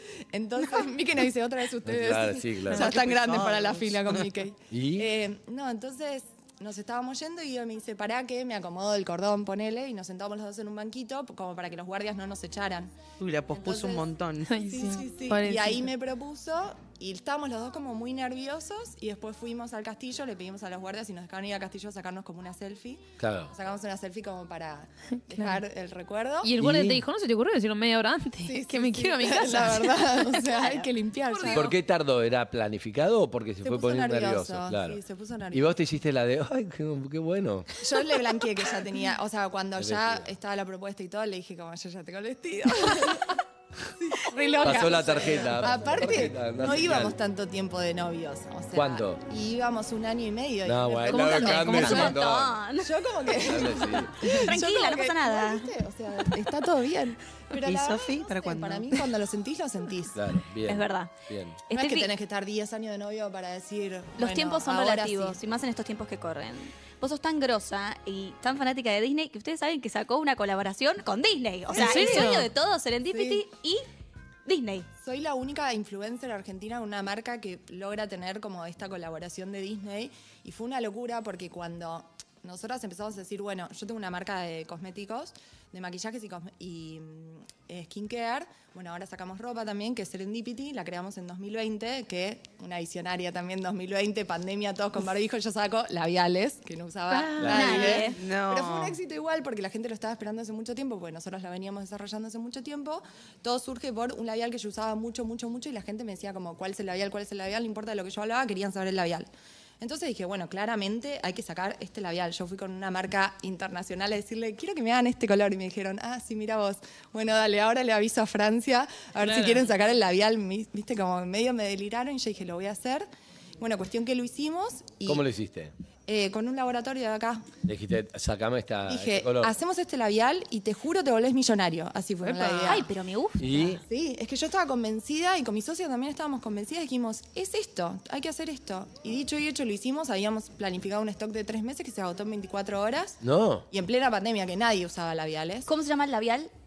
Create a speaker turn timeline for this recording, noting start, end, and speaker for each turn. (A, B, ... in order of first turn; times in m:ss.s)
0:00.3-0:13.0 A
0:01.8-0:02.9 B
0:02.8-0:04.2 C
0:04.7-0:05.1 B
0:13.2-0:14.6 C
0:13.5-0:14.1 A
0:14.5-0:15.9 D
0:14.7-0:26.5 A
0:23.2-0:23.5 B
0:25.3-0:25.6 D
0:26.4-0:30.6 D
0:26.6-0:27.0 B
0:28.4-0:31.7 A
0:30.6-0:30.8 E
0:31.3-0:31.7 D
0:31.5-0:35.0 B
0:33.6-0:35.7 A
0:35.5-0:37.7 B
0:37.8-0:43.4 A
0:39.8-0:40.2 B
0:44.0-0:52.1 A
0:44.6-0:47.2 B
0:48.7-0:49.2 B
0:50.6-0:52.6 B
0:51.1-0:53.0 E
0:51.1-0:52.2 D
0:52.8-1:00.2 A
0:53.3-0:54.2 B
0:54.3-0:55.7 E
0:57.6-0:59.1 C
1:00.1-1:01.6 B
1:00.6-1:01.1 E
1:01.7-1:02.1 E
1:01.7-1:05.4 A
1:04.2-1:13.8 E
1:11.7-1:12.4 A
1:11.7-1:12.5 D
1:13.1-1:13.4 A
1:14.4-1:14.9 E
1:15.0-1:49.3 A
1:37.1-1:38.2 E
1:37.4-1:37.7 B
1:38.0-1:39.0 C
1:49.8-2:03.1 A
1:59.2-1:59.6 D
2:03.6-2:05.2 A
2:05.0-2:05.7 B
2:06.1-2:07.5 A
2:07.6-2:09.5 B
2:08.9-2:12.9 A
2:12.2-2:13.6 E
2:13.4-2:13.8 B
2:13.5-2:25.7 A
2:23.2-2:23.7 B
2:25.6-2:26.5 E